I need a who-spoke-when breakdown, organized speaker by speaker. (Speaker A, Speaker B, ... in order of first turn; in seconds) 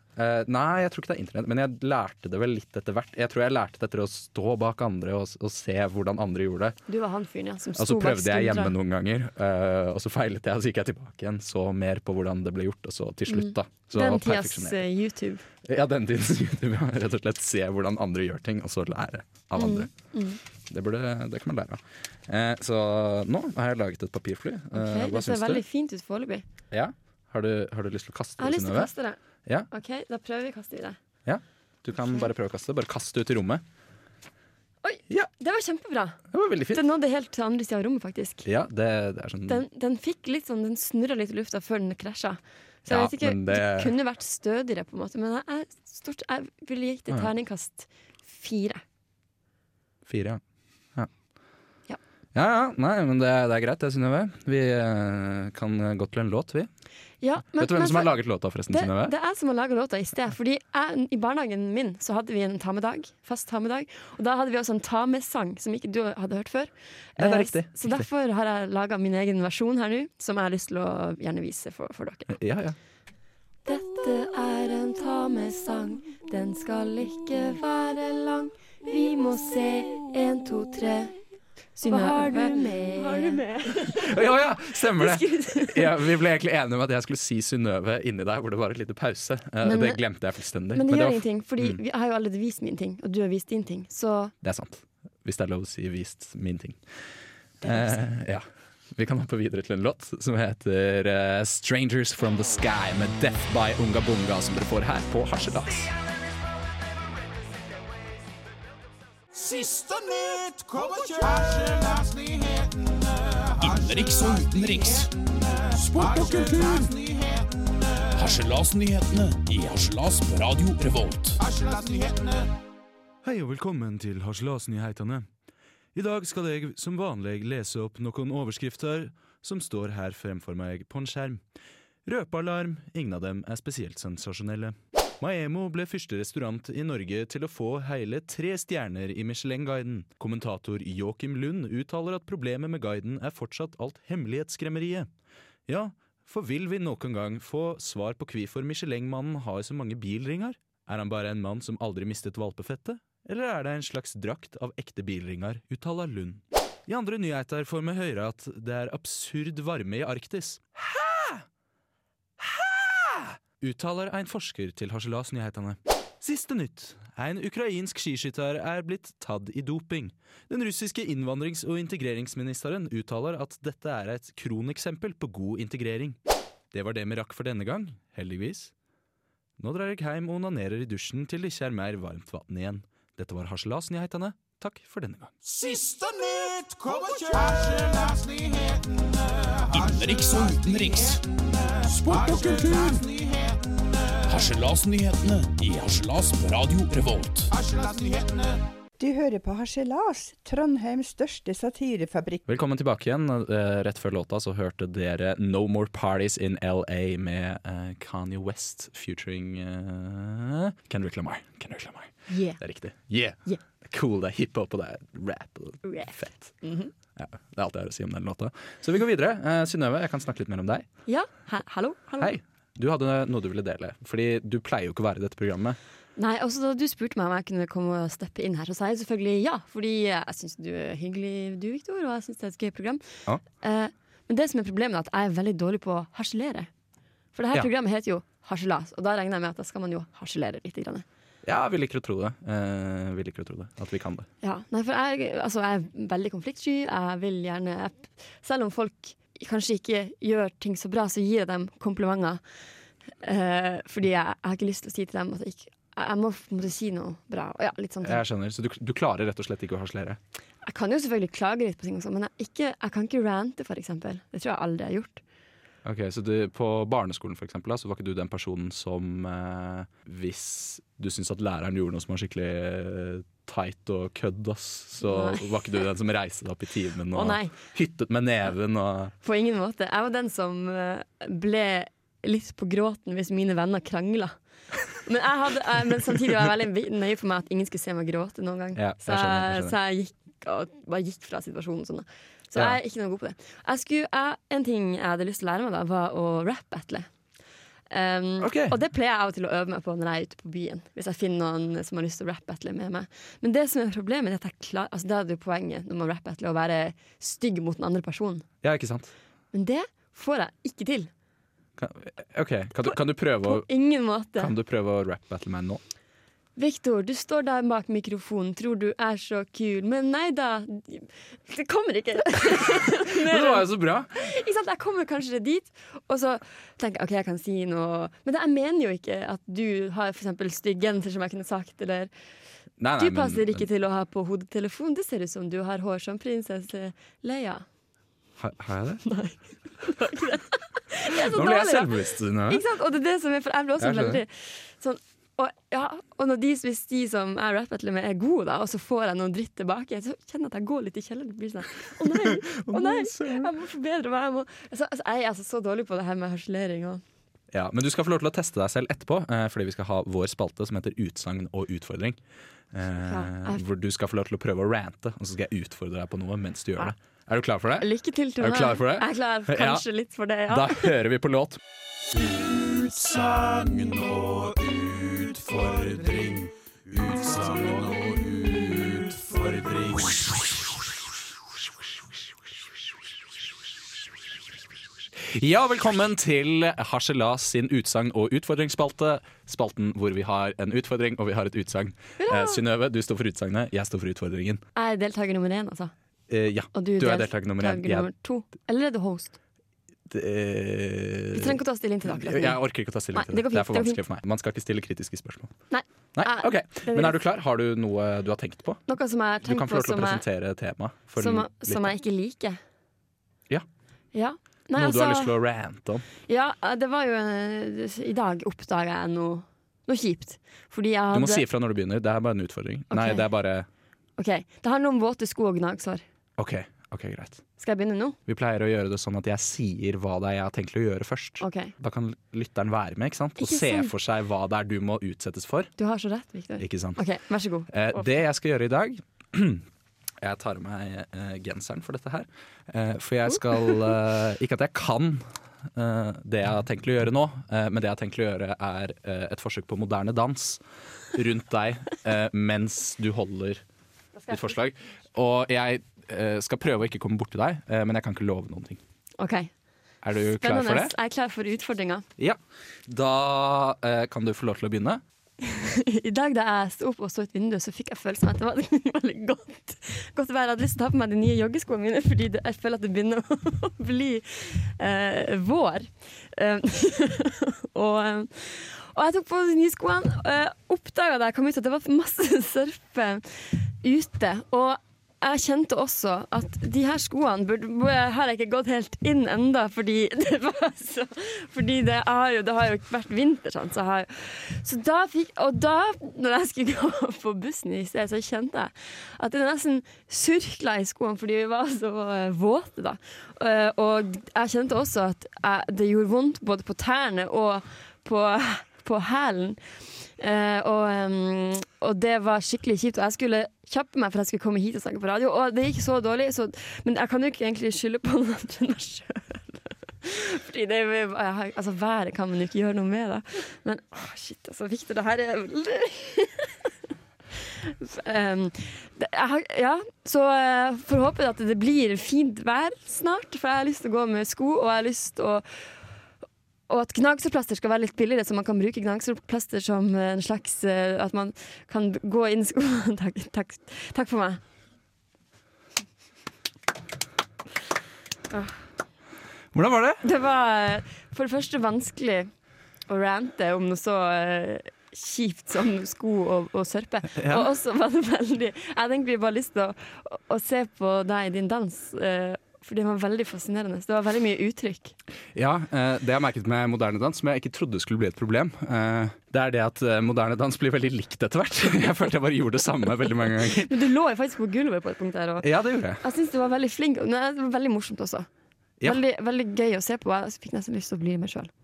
Speaker A: 0.2-6.8, 7.8-14.8, 15.6-19.9, 20.7-25.6, 26.7-28.9, 31.2-33.6, 36.3-36.8, 38.5-39.6, 42.9-44.0, 50.1-50.4, 52.3-56.7, 57.5-59.1, 67.2-68.1, 72.3-72.8, 83.7-91.8, 94.4-96.8, 97.6-105.9, 123.2-125.3, 125.9-131.4, 132.1-145.1, 145.7-161.4, 162.4-176.2, 176.7-178.7, 179.6-185.3, 202.5-216.5, 217.2-220.9, 222.2-225.8, 241.4-244.3, 258.0-260.2, 265.8-279.1, 288.8-289.8, 298.4-298.8, 308.6-309.1, 311.8-313.7, 314.4-315.8, 322.5-324.2, 332.8-333.7, 338.4-339.0, 341.0-342.6, 343.8-344.2, 352.0-353.5, 357.5-362.2, 362.7-367.9, 368.4-369.8, 370.5-371.6, 378.3-380.0, 385.2-394.6, 396.3-398.1, 400.1-405.6, 406.1-408.9, 409.4-411.9, 414.8-416.1, 421.1-423.7, 426.4-427.4, 428.3-435.7, 436.6-437.1, 437.7-439.7, 440.2-450.6, 451.1-453.6, 454.3-458.8, 460.0-460.9, 462.2-465.0, 549.5-550.0, 557.1-557.5, 565.3-573.7, 575.4-576.0
Speaker B: 6.9-8.8, 13.3-15.4, 19.6-20.4, 24.7-26.4, 28.4-29.2, 29.7-31.0, 34.8-38.5, 39.5-48.8, 57.2-58.2, 58.7-72.3, 73.7-81.2, 81.8-84.2, 84.9-86.0, 89.6-90.0, 90.7-94.3, 97.6-98.0, 212.3-212.6, 215.8-216.9, 221.1-222.3, 226.2-236.7, 237.3-241.1, 244.4-252.4, 253.2-258.2, 260.6-265.2, 275.0-275.8, 277.1-277.6, 279.2-297.1, 297.9-308.4, 309.5-311.1, 312.8-314.5, 316.6-332.1, 333.0-337.6, 339.1-341.9, 342.5-357.0, 363.1-363.6, 367.8-370.9, 392.2-392.6, 394.8-395.9, 396.7-399.4, 401.3-404.0, 405.7-407.2, 408.9-410.2, 411.2-412.6, 414.1-415.4, 416.3-421.4, 422.9-423.3, 424.2-426.0, 427.6-428.2, 431.4-431.7, 433.4-433.9, 435.8-438.1, 459.2-459.5, 460.3-462.1, 465.4-526.7, 527.3-535.5, 536.7-544.4, 548.3-548.6, 550.0-552.3, 552.9-565.0, 573.5-578.3, 578.8-581.5
Speaker C: 109.3-118.1, 121.4-122.5, 185.4-194.2, 197.5-198.6, 372.6-376.3, 377.0-378.0
Speaker D: 113.6-115.1, 115.8-116.9, 118.2-121.4, 189.7-191.2, 191.9-193.1, 194.3-197.5
Speaker E: 199.0-202.4